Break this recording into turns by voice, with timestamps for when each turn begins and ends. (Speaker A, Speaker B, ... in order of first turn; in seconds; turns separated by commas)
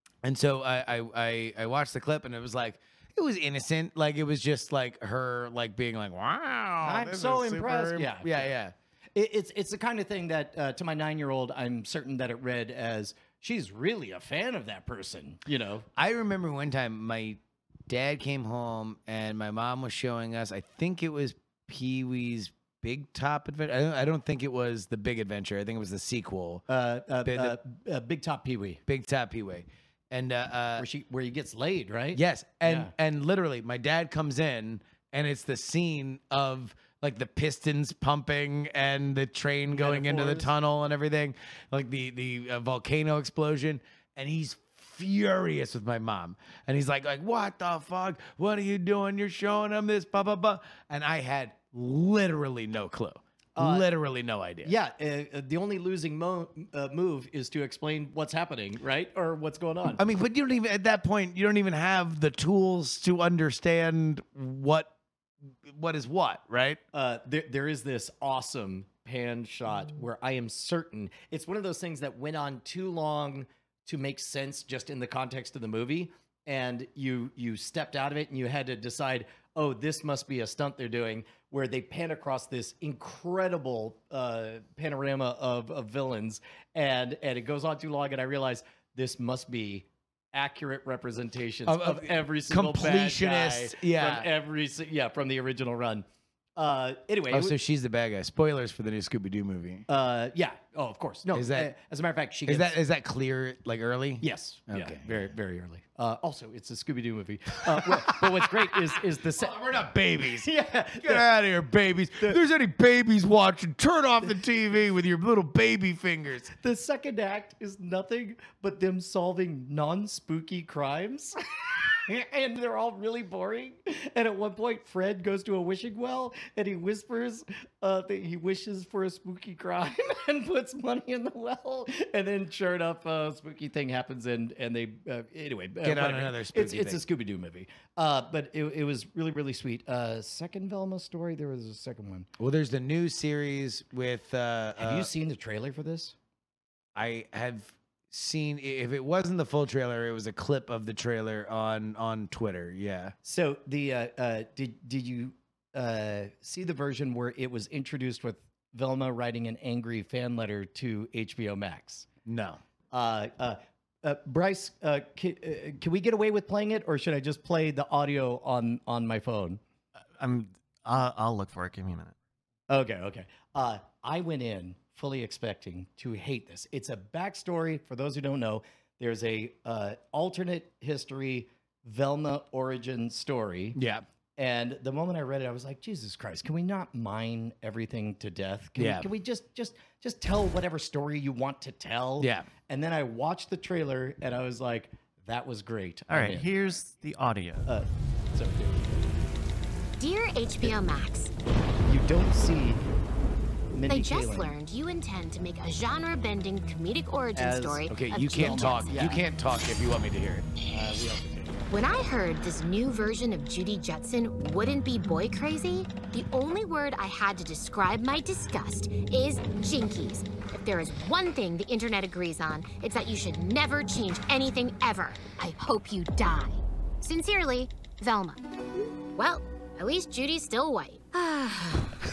Speaker A: 0.2-8.8, Speaker B: 6.8-8.4, Speaker B: 9.2-15.9, Speaker A: 16.0-26.6, Speaker B: 26.7-28.8, Speaker A: 27.2-27.6, Speaker A: 28.9-30.9, Speaker B: 30.8-32.9, Speaker A: 32.1-54.7, Speaker B: 39.7-40.5, Speaker B: 53.6-53.9, Speaker B: 54.6-60.0, Speaker A: 60.0-64.9, Speaker A: 65.7-66.8, Speaker B: 66.9-96.1, Speaker A: 91.7-94.3, Speaker B: 96.6-97.5, Speaker A: 97.3-99.9, Speaker B: 99.9-102.7, Speaker A: 101.3-101.7, Speaker A: 102.5-105.1, Speaker B: 104.2-109.6, Speaker A: 107.7-116.5, Speaker B: 110.4-111.3, Speaker B: 116.6-142.3, Speaker A: 135.8-137.0, Speaker A: 142.4-145.1, Speaker B: 144.8-146.2, Speaker A: 146.9-153.1, Speaker B: 153.2-162.1, Speaker A: 162.2-162.6, Speaker B: 162.9-169.6, Speaker C: 170.2-172.1, Speaker B: 172.7-183.8, Speaker A: 183.8-184.1, Speaker B: 184.4-196.5, Speaker A: 188.8-189.1, Speaker A: 192.2-192.5, Speaker C: 196.1-197.7, Speaker B: 197.7-199.2, Speaker D: 200.0-201.3, Speaker B: 201.8-202.8, Speaker B: 203.7-204.6, Speaker D: 203.9-209.1, Speaker B: 207.3-209.2, Speaker A: 207.9-210.5, Speaker B: 210.7-211.7, Speaker D: 211.7-228.4, Speaker D: 229.2-232.0